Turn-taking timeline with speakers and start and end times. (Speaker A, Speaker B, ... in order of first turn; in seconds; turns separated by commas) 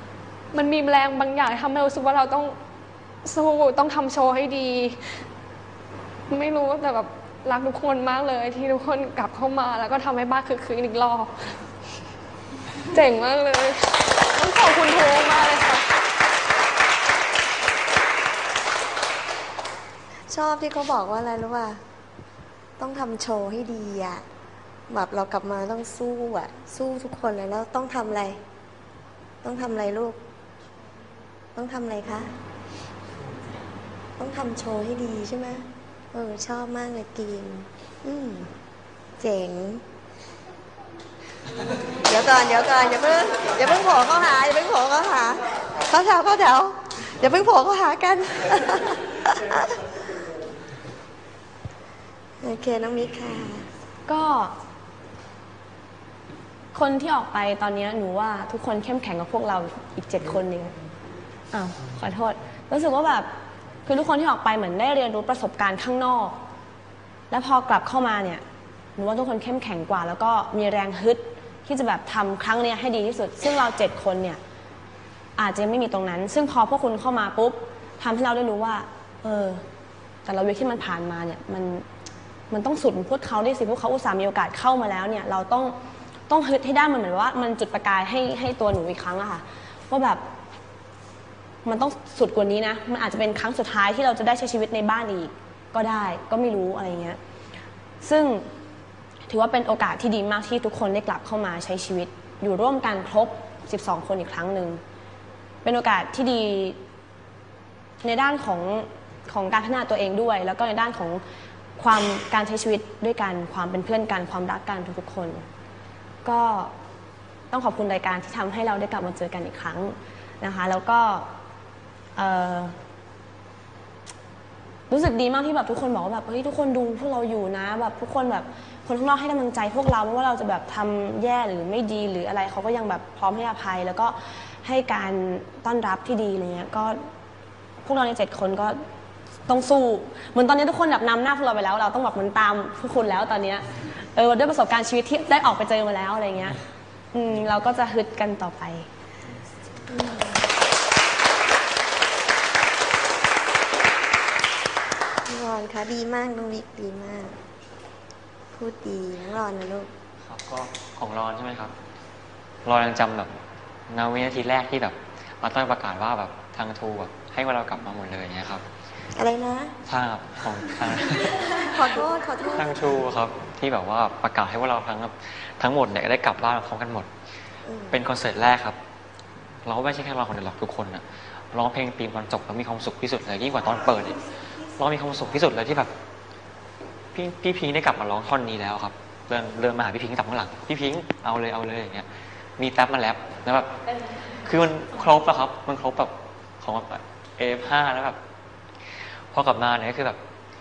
Speaker A: 0.5-2.5, Speaker A: 3.2-5.2, Speaker A: 6.3-11.5, Speaker A: 12.9-15.8, Speaker B: 20.3-21.8, Speaker B: 22.8-24.2, Speaker B: 24.9-28.4, Speaker B: 29.4-30.2, Speaker B: 31.6-32.3, Speaker B: 34.2-38.5, Speaker B: 39.2-39.8, Speaker B: 42.0-49.8, Speaker B: 52.4-53.7, Speaker C: 54.1-54.5, Speaker C: 56.7-60.8, Speaker C: 61.5-63.3, Speaker C: 63.9-66.4, Speaker C: 67.3-68.4, Speaker C: 69.0-74.4, Speaker C: 75.4-79.6, Speaker C: 80.2-81.8, Speaker C: 82.5-85.8, Speaker C: 86.3-90.2, Speaker C: 91.6-97.2, Speaker C: 98.0-98.5, Speaker C: 99.3-104.8, Speaker C: 105.6-106.8, Speaker C: 108.0-111.2, Speaker C: 111.8-115.5, Speaker C: 116.2-116.8, Speaker C: 117.5-121.3, Speaker C: 122.2-122.8, Speaker C: 124.9-137.0, Speaker C: 137.8-138.8, Speaker C: 139.5-146.6, Speaker C: 147.1-148.9, Speaker B: 149.9-150.5, Speaker B: 155.3-157.4, Speaker B: 158.5-159.9, Speaker D: 160.2-161.7, Speaker D: 162.7-163.3, Speaker D: 163.9-168.7, Speaker B: 169.1-169.8, Speaker D: 169.8-172.0, Speaker B: 171.6-172.7, Speaker D: 172.5-177.1, Speaker B: 177.7-178.0, Speaker D: 177.9-178.8, Speaker D: 179.7-185.9, Speaker D: 187.1-192.1, Speaker D: 192.6-193.7, Speaker D: 194.4-198.2, Speaker D: 199.3-200.2